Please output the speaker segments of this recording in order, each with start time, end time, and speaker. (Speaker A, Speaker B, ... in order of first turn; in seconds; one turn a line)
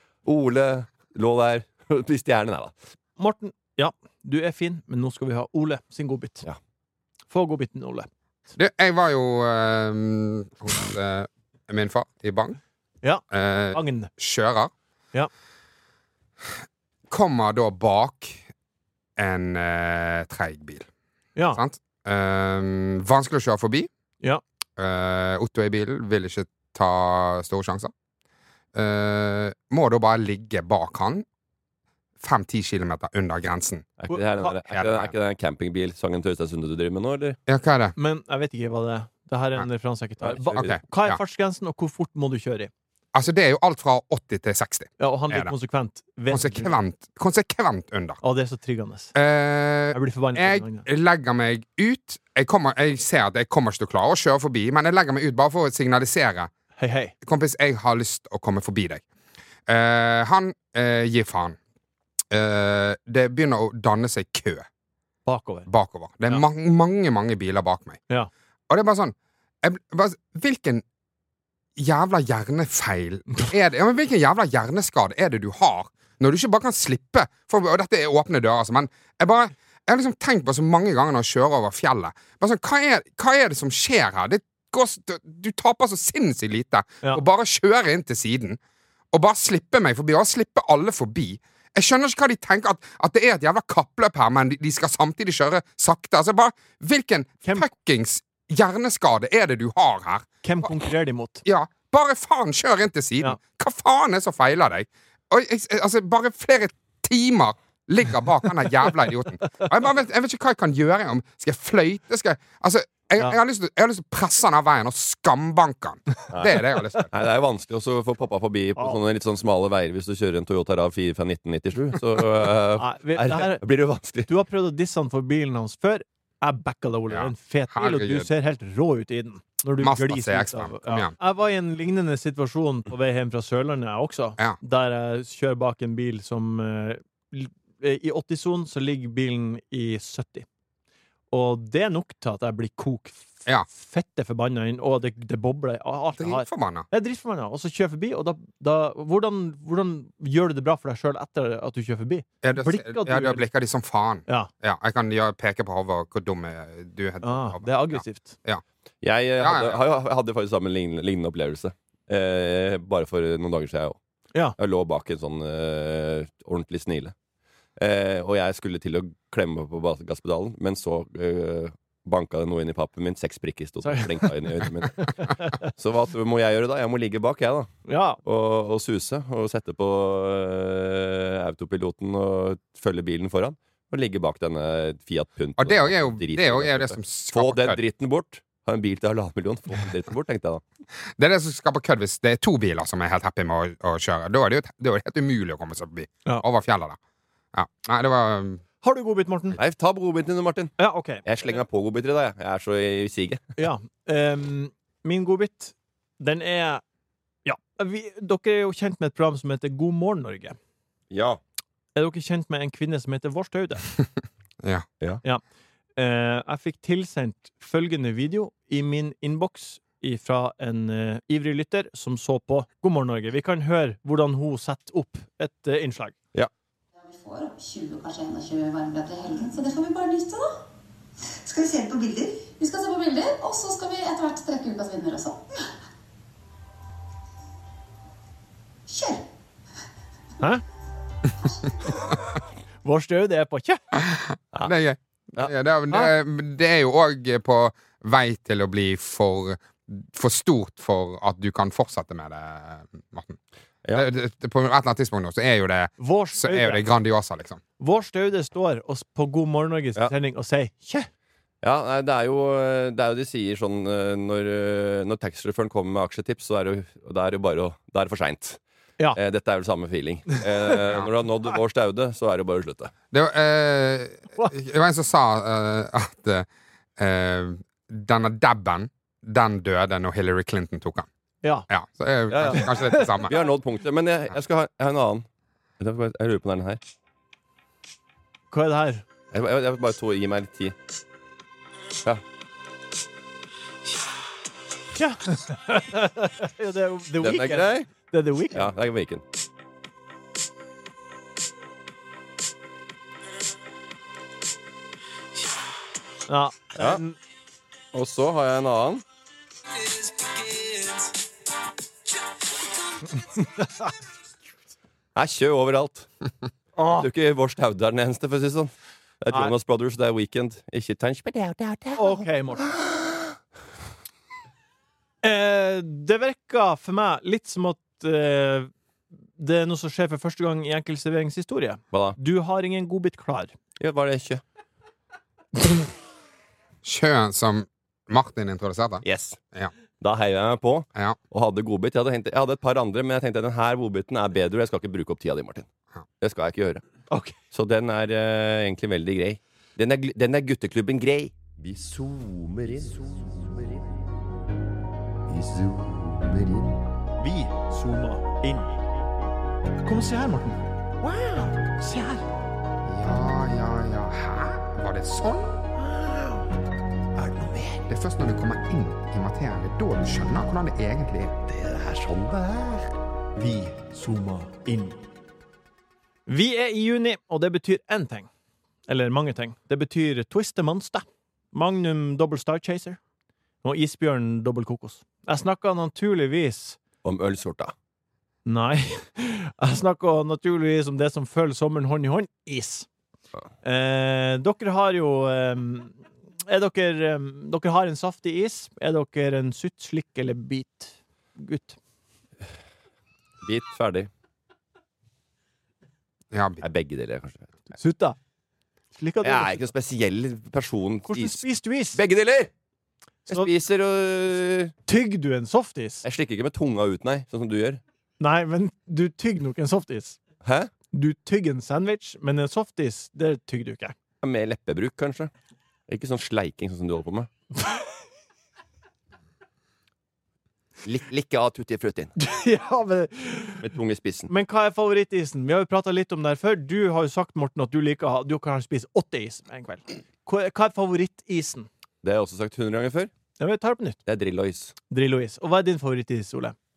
Speaker A: 0.2-2.7
Speaker B: 3.2-6.4
Speaker B: 7.3-8.1
Speaker C: 8.6-12.6
Speaker C: 13.3-14.7
Speaker B: 13.7-14.1
Speaker C: 17.1-18.4
Speaker C: 19.2-20.9
Speaker B: 21.4-21.6
Speaker C: 21.5-23.9
Speaker C: 24.8-27.9
Speaker C: 28.7-31.2
Speaker C: 32.2-34.0
Speaker A: 34.0-37.4
Speaker B: 34.1-34.5
Speaker C: 34.7-35.1
Speaker C: 37.5-37.9
Speaker B: 38.0-42.7
Speaker A: 40.2-40.8
Speaker C: 40.5-41.2
Speaker C: 43.1-45.5
Speaker B: 45.0-46.7
Speaker C: 46.3-48.2
Speaker B: 48.2-49.1
Speaker C: 49.1-56.5
Speaker B: 49.9-50.9
Speaker B: 56.8-57.1
Speaker C: 57.2-59.0
Speaker C: 59.7-61.6
Speaker C: 62.3-64.7
Speaker B: 65.2-65.7
Speaker C: 65.7-68.0
Speaker C: 68.7-70.8
Speaker C: 71.8-88.6
Speaker C: 89.1-100.3
Speaker B: 100.4-101.4
Speaker C: 101.4-117.1
Speaker A: 116.3-124.3
Speaker B: 122.8-123.6
Speaker B: 124.2-140.4
Speaker C: 127.1-128.3
Speaker C: 129.8-131.1
Speaker B: 141.3-153.4
Speaker C: 146.2-146.9
Speaker C: 152.4-158.6
Speaker B: 157.2-158.4
Speaker A: 159.0-164.0
Speaker C: 159.4-159.8
Speaker A: 164.6-167.1
Speaker A: 167.8-177.7
Speaker B: 173.8-174.2
Speaker B: 175.0-175.6
Speaker B: 177.8-178.2
Speaker A: 178.2-190.6
Speaker C: 185.6-187.8
Speaker C: 191.2-197.0
Speaker C: 197.5-198.6
Speaker B: 198.8-199.6
Speaker A: 199.6-200.7
Speaker B: 200.8-201.2
Speaker A: 201.2-203.4
Speaker B: 203.6-206.8
Speaker B: 207.4-210.6
Speaker A: 211.1-211.4
Speaker B: 211.9-213.8
Speaker B: 215.9-226.2
Speaker D: 226.9-230.6
Speaker D: 231.3-235.6
Speaker D: 238.9-239.2
Speaker B: 242.8-243.8
Speaker C: 244.1-253.4
Speaker C: 253.9-257.6
Speaker B: 256.0-256.8
Speaker B: 257.8-261.1
Speaker A: 261.6-268.6
Speaker A: 269.1-272.9
Speaker C: 273.1-281.1
Speaker B: 281.4-281.7
Speaker C: 281.7-283.3
Speaker A: 282.3-285.2
Speaker B: 282.4-283.3
Speaker A: 285.8-286.8
Speaker B: 288.5-289.0
Speaker A: 289.3-290.7
Speaker B: 294.9-298.7
Speaker A: 297.2-297.9
Speaker A: 298.5-299.2
Speaker B: 306.3-307.2
Speaker A: 307.9-309.0
Speaker A: 310.1-311.1
Speaker B: 313.2-313.9
Speaker A: 315.1-316.1
Speaker B: 316.8-317.1
Speaker A: 316.9-323.0
Speaker B: 321.9-322.6
Speaker B: 325.2-328.7
Speaker B: 329.4-333.5
Speaker A: 331.9-332.2
Speaker A: 333.8-334.4
Speaker C: 336.8-339.7
Speaker A: 339.0-339.4
Speaker A: 340.0-345.7
Speaker A: 346.2-353.9
Speaker A: 355.3-356.8
Speaker B: 357.2-359.0
Speaker B: 359.8-362.2
Speaker C: 362.8-365.6
Speaker A: 367.1-367.8
Speaker C: 367.8-371.4
Speaker A: 371.4-372.9
Speaker B: 373.4-375.0
Speaker B: 376.3-378.3
Speaker B: 378.9-383.0
Speaker B: 383.6-386.8
Speaker A: 387.0-387.7
Speaker B: 388.4-392.9
Speaker B: 393.6-401.8
Speaker A: 403.4-404.1
Speaker C: 406.3-406.6
Speaker A: 406.6-407.5
Speaker B: 407.8-408.2
Speaker B: 408.9-409.7
Speaker A: 409.2-411.4
Speaker B: 411.1-412.0
Speaker A: 411.9-412.5
Speaker A: 413.3-414.7
Speaker B: 414.9-416.0
Speaker A: 416.0-417.8
Speaker B: 418.2-420.2
Speaker A: 420.4-420.7
Speaker B: 420.9-423.9
Speaker A: 424.2-425.3
Speaker A: 425.9-427.3
Speaker A: 430.8-432.1
Speaker B: 432.2-433.6
Speaker A: 433.6-434.3
Speaker B: 434.3-441.7
Speaker A: 442.0-443.1
Speaker B: 443.4-444.0
Speaker A: 444.1-444.7
Speaker B: 444.9-446.5